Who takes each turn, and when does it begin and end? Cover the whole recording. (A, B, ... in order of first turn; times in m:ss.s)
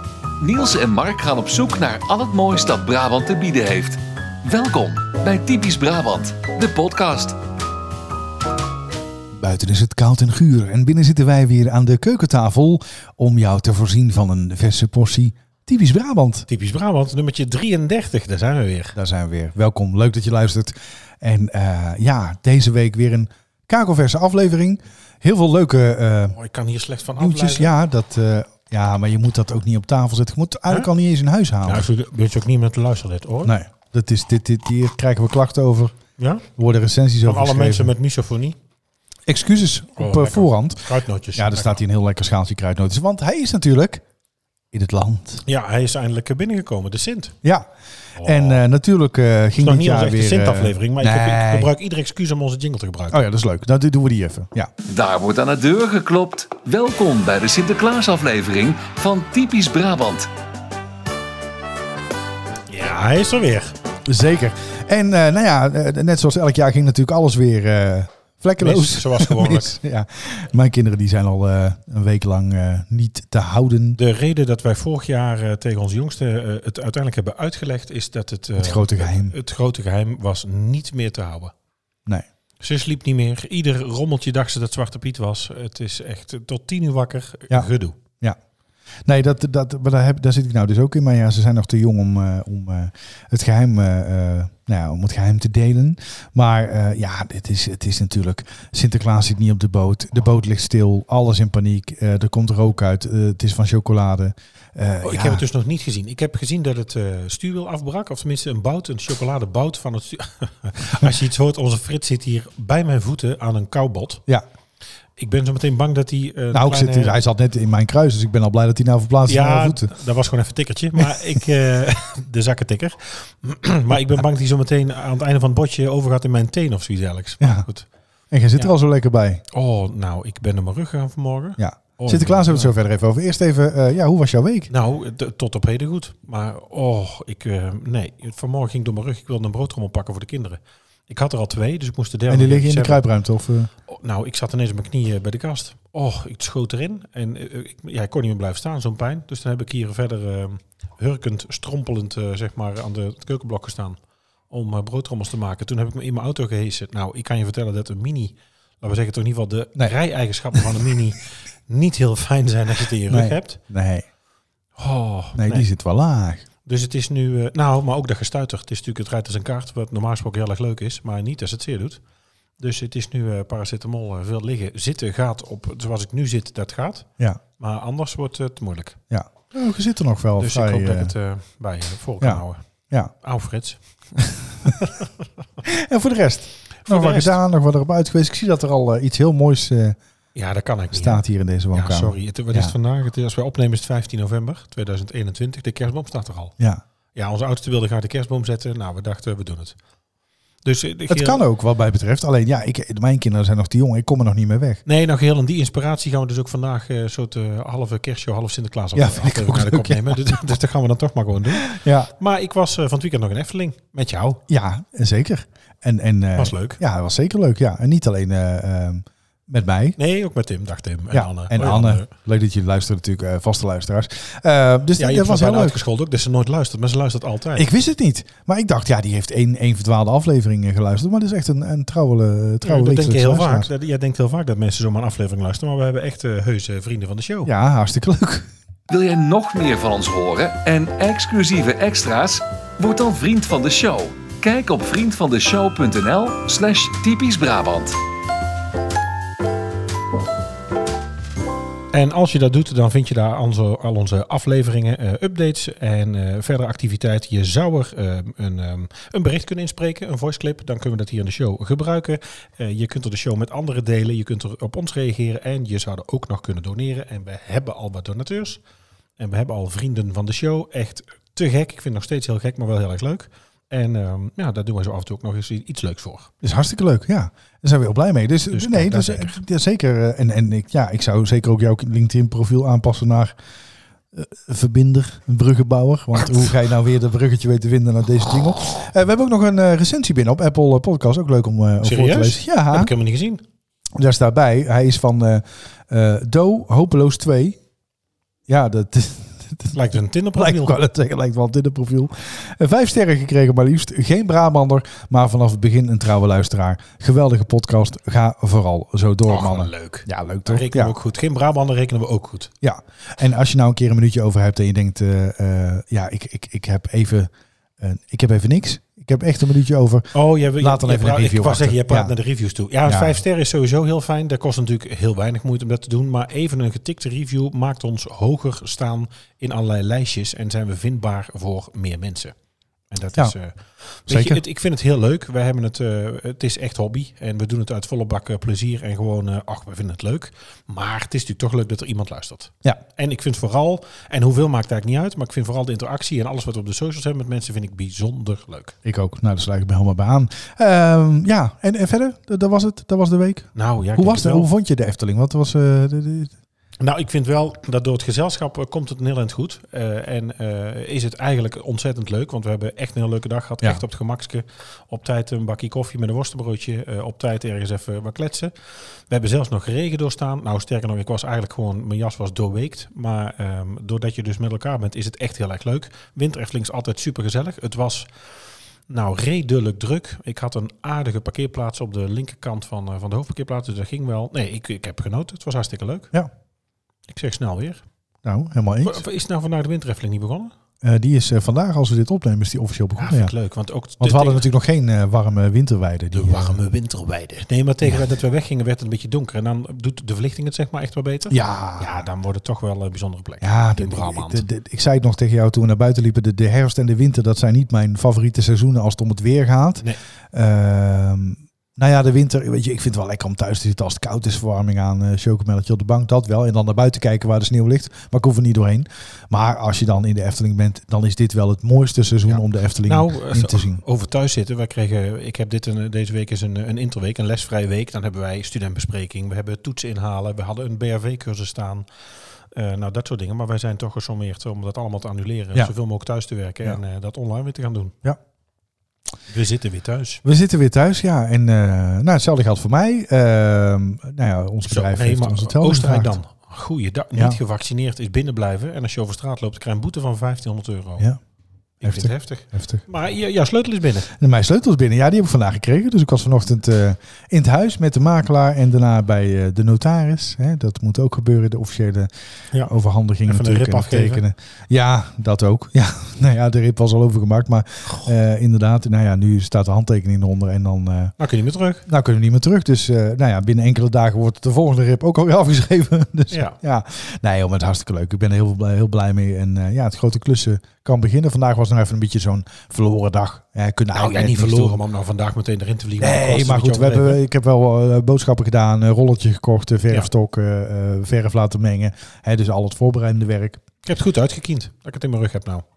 0:00.4-0:07.4 A
0:09.3-0:16.5 B
0:16.5-0:19.0 C
0:18.9-0:26.4 B
0:26.3-0:27.7 C
0:27.2-0:31.9 B
0:31.6-0:33.6 C
0:33.4-0:36.0 B
0:36.2-0:36.4 C
0:36.6-0:37.9 B
0:37.2-0:38.6 C
0:39.3-0:44.0 B
0:40.0-0:41.8 C
0:44.7-0:45.4 B
0:45.4-0:47.3 C
0:47.4-0:47.7 B
0:48.2-0:48.6 C
0:48.2-0:51.7 B
0:49.6-0:53.2 C
0:53.1-0:54.7 B
0:54.9-1:00.3 A
1:02.7-1:03.7 C
1:04.0-1:14.0 B
1:08.6-1:09.8 C
1:14.0-1:21.5 C
1:18.6-1:19.3 B
1:22.6-1:28.0 C
1:29.0-1:45.4 B
1:45.0-1:54.2 C
1:55.2-1:57.2 C
1:56.5-1:59.9 B
1:59.2-2:07.9 C
2:07.4-2:07.7 B
2:08.3-2:09.4 B
2:09.5-2:12.7 C
2:11.6-2:14.7 B
2:14.7-2:23.0 C
2:22.3-2:23.7 B
2:23.9-2:43.6 C
2:43.1-2:44.0 B
2:44.8-2:45.7 C
2:45.3-2:46.4 B
2:46.6-2:52.0 C
2:52.6-2:59.0 C
2:59.1-3:01.1 B
3:00.4-3:02.6 C
3:02.2-3:03.1 B
3:03.2-3:05.1 C
3:05.6-3:10.0 B
3:06.8-3:07.4 C
3:10.3-3:16.5 C
3:10.9-3:12.7 B
3:17.1-3:19.8 C
3:20.6-3:21.4 C
3:21.1-3:24.8 B
3:24.8-3:34.4 C
3:28.9-3:30.2 B
3:31.6-3:32.1 B
3:34.5-3:40.0 B
3:36.3-3:36.8 C
3:40.0-3:42.1 C
3:41.1-3:45.8 B
3:45.0-3:47.7 C
3:47.6-3:53.7 B
3:52.6-3:57.5 C
3:57.4-3:58.5 B
3:58.9-4:08.0 A
4:11.9-4:28.6 C
4:29.2-4:36.3 C
4:36.4-4:43.3 B
4:38.5-4:39.4 C
4:44.1-4:52.9 B
4:51.8-4:53.4 C
4:53.9-4:57.6 B
4:58.5-4:59.8 B
4:59.7-5:00.8 C
5:00.3-5:10.9 B
5:09.3-5:12.5 C
5:12.6-5:22.1 B
5:20.1-5:32.3 C
5:22.8-5:23.2 B
5:32.9-5:48.8 C
5:34.1-5:34.4 B
5:48.8-5:56.3 B
5:53.5-5:54.5 C
5:56.8-6:08.5 C
6:09.1-6:18.1 C
6:18.9-6:26.1 C
6:27.1-6:27.8 C
6:28.2-6:29.0 B
6:28.8-6:30.5 C
6:30.8-6:33.3 B
6:33.0-6:34.5 C
6:34.0-6:36.6 B
6:36.1-6:44.4 C
6:41.3-6:42.0 B
6:43.4-7:03.8 B
7:02.3-7:11.8 C
7:12.5-7:18.0 C
7:19.3-7:20.2 C
7:20.2-7:26.2 B
7:24.7-7:31.1 C
7:31.8-7:34.1 C
7:31.8-7:32.8 B
7:34.1-7:42.1 B
7:42.6-7:51.1 B
7:43.2-7:44.2 C
7:51.2-7:51.8 C
7:51.8-8:04.8 B
7:56.3-7:56.6 C
8:03.9-8:07.2 C
8:06.0-8:13.6 B
8:13.8-8:15.6 C